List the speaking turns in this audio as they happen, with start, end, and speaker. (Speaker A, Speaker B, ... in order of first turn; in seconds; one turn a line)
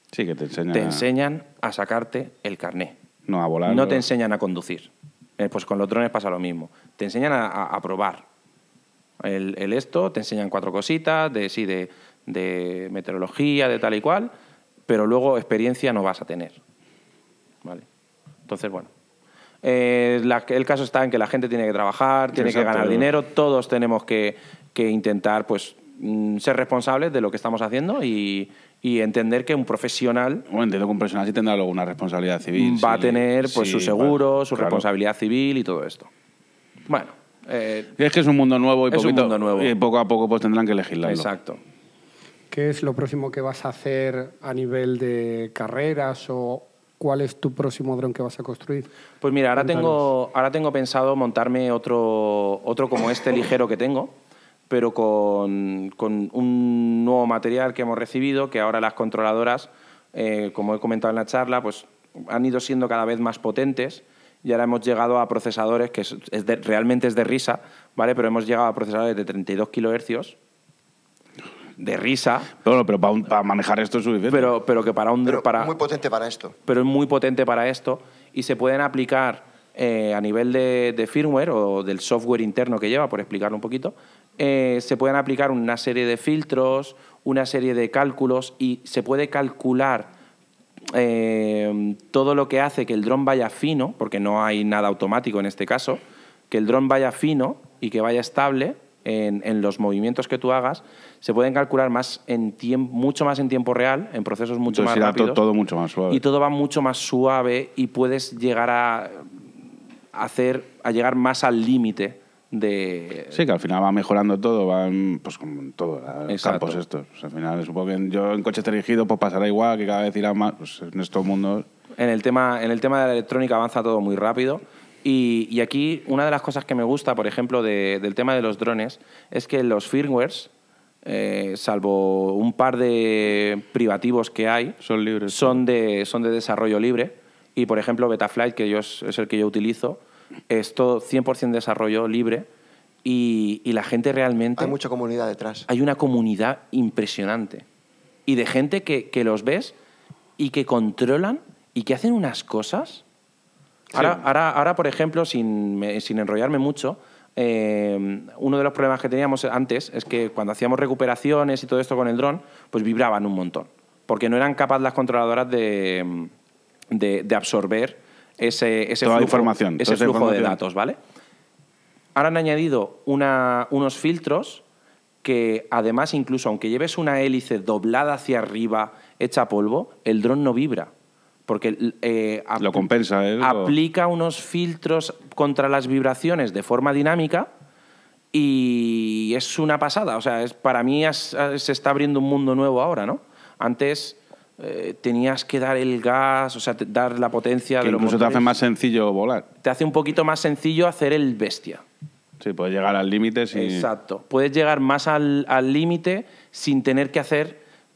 Speaker A: 0.1-1.0
Speaker B: 0.7-3.0
Speaker A: 3.3-4.0
Speaker B: 3.6-8.2
Speaker B: 9.2-14.3
Speaker B: 14.9-16.6
Speaker B: 18.5-18.9
Speaker B: 19.6-30.4
Speaker A: 22.3-23.1
Speaker A: 30.5-34.8
Speaker B: 32.6-36.1
Speaker B: 36.9-37.9
Speaker A: 38.0-41.3
Speaker B: 38.9-39.7
Speaker B: 41.0-41.6
Speaker C: 42.5-48.9
Speaker B: 49.2-54.1
Speaker C: 49.6-50.1
Speaker B: 54.7-70.3
Speaker B: 71.8-72.5
Speaker A: 72.6-74.5
Speaker B: 74.3-75.7
Speaker D: 75.2-76.5
Speaker B: 76.7-90.1
Speaker B: 90.9-105.4
Speaker A: 104.7-106.2
Speaker B: 106.1-109.3
Speaker B: 110.1-113.4
Speaker A: 113.3-121.7
Speaker B: 116.3-116.8
Speaker B: 122.0-130.5
Speaker B: 131.0-142.5
Speaker A: 134.8-135.6
Speaker B: 143.0-144.7
Speaker D: 144.6-145.7
Speaker B: 145.7-147.6
Speaker B: 148.2-149.7
Speaker B: 150.4-153.0
Speaker B: 153.9-166.3
Speaker B: 166.9-171.0
Speaker A: 169.0-170.6
Speaker B: 172.1-174.6
Speaker B: 175.2-180.9
Speaker B: 181.5-182.9
Speaker A: 182.6-183.7
Speaker B: 183.4-187.5
Speaker B: 188.3-198.5
Speaker A: 197.8-199.5
Speaker B: 199.6-201.8
Speaker A: 202.4-203.9
Speaker B: 203.5-207.6